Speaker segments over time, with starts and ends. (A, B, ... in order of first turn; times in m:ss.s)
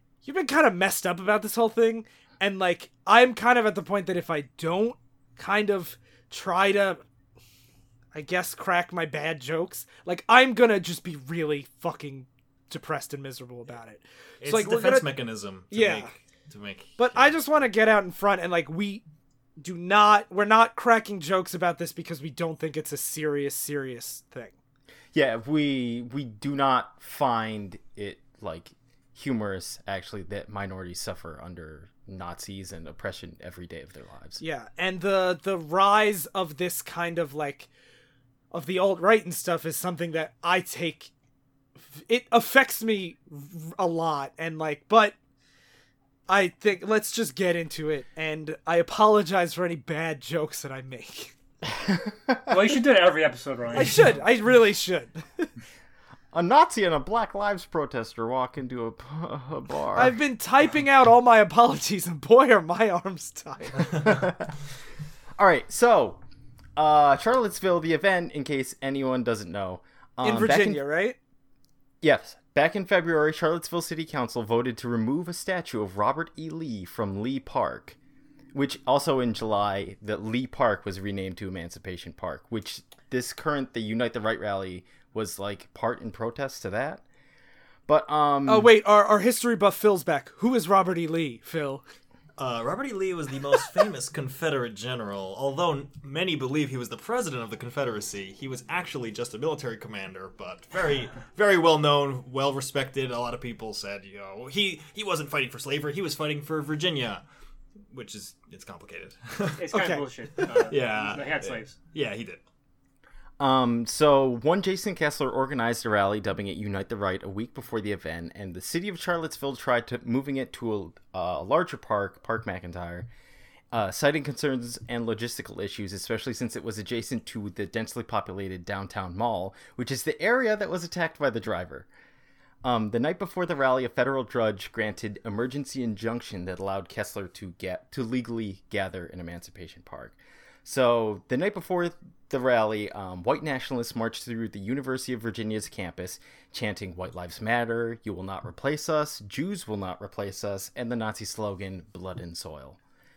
0:00.2-0:07.0 A
0:08.1-0:15.1 A
0:14.4-0:17.3 B
0:15.7-0:16.1 A
0:17.0-0:19.0 A
0:19.6-0:24.5 A
0:25.1-0:34.4 C
0:34.4-0:37.7 A
0:38.5-0:41.1 A
0:41.8-0:45.2 A
0:46.3-0:51.3 A
0:51.8-0:52.5 C
0:52.5-0:54.2 D
0:53.7-0:55.5 A
0:56.3-1:00.2 C
0:59.9-1:04.1 A
1:04.0-1:04.5 C
1:05.4-1:06.2 C
1:06.8-1:10.8 C
1:10.2-1:11.2 A
1:12.0-1:18.0 C
1:18.5-1:27.0 C
1:27.9-1:28.7 C
1:28.4-1:31.8 A
1:32.4-1:47.2 B
1:47.9-1:49.6 B
1:49.6-1:51.7 D
1:49.7-1:50.0 A
1:50.7-1:52.4 B
1:53.4-2:03.1 C
2:03.7-2:11.9 C
2:12.6-2:32.8 C